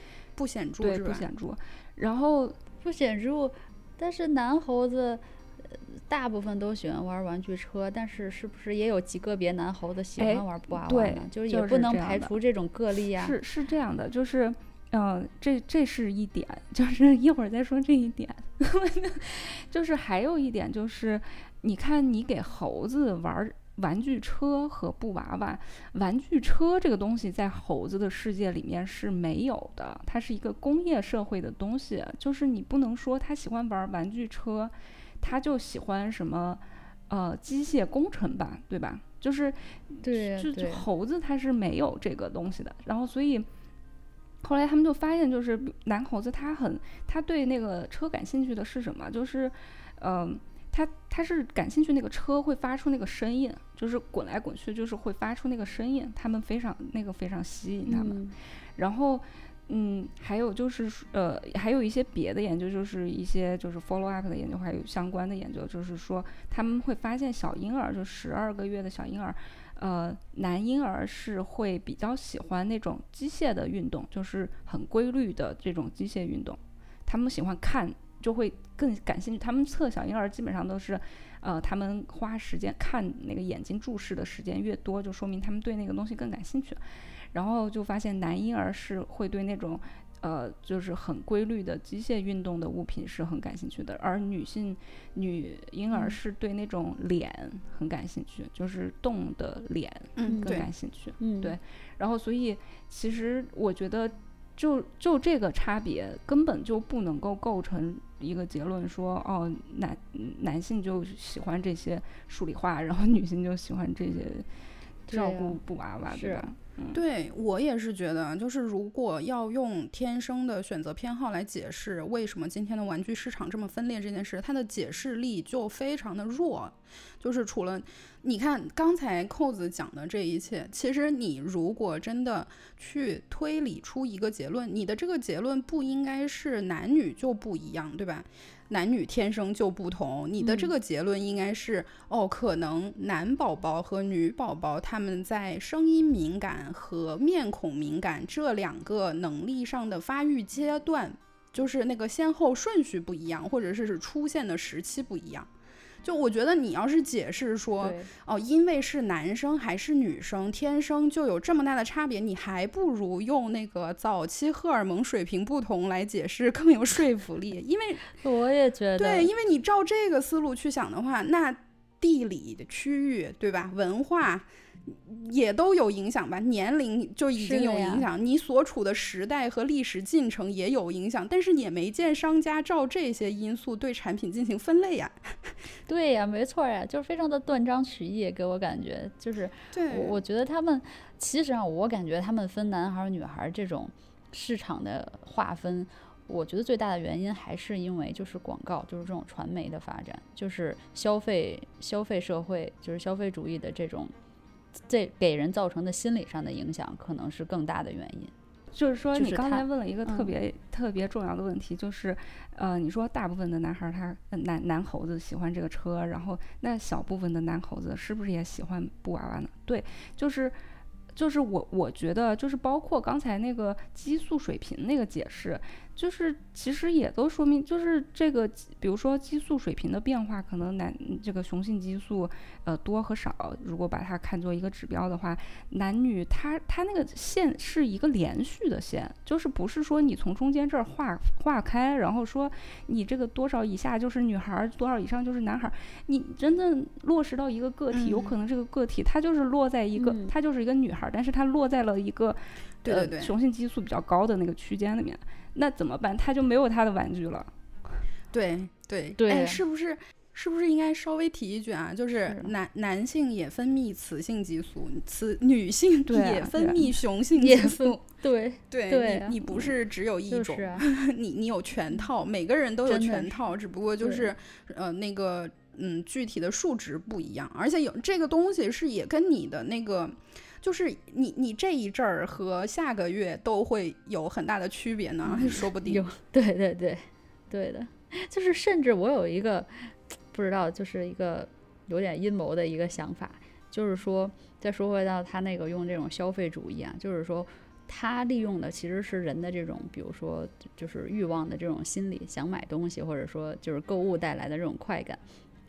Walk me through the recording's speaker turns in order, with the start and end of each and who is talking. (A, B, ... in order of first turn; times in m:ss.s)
0:00.4-0:01.3 A
0:00.8-0:02.6 B
0:02.8-0:13.4 C
0:10.2-0:12.3 B
0:13.2-0:43.5 B
0:40.0-0:40.8 C
0:44.4-0:58.2 B
0:57.9-0:58.4 C
0:58.8-1:26.8 B
1:27.3-1:54.5 B
1:40.2-1:40.7 A
1:40.3-1:40.6 C
1:41.2-1:41.6 C
1:55.1-1:55.6 C
1:55.1-1:57.0 B
1:56.1-1:56.5 C
1:56.9-2:35.5 A
2:20.4-2:20.7 C
2:36.0-2:48.1 A
2:37.8-2:38.1 C
2:48.2-2:49.3 C
2:49.0-3:05.5 A
2:57.4-2:58.1 C
3:05.9-3:24.1 C
3:09.7-3:10.2 A
3:24.8-3:28.3 C
3:28.7-3:40.6 B
3:29.2-3:30.3 C
3:41.1-4:17.5 B
4:07.9-4:08.3 A
4:10.0-4:10.3 C
4:12.8-4:13.3 A
4:18.3-4:28.0 A
4:19.2-4:19.6 C
4:22.3-4:22.5 C
4:26.1-4:26.9 B
4:27.4-4:29.7 C
4:28.7-4:46.0 A
4:30.3-4:30.8 C
4:32.9-4:33.4 C
4:34.0-4:34.3 C
4:45.2-5:05.2 C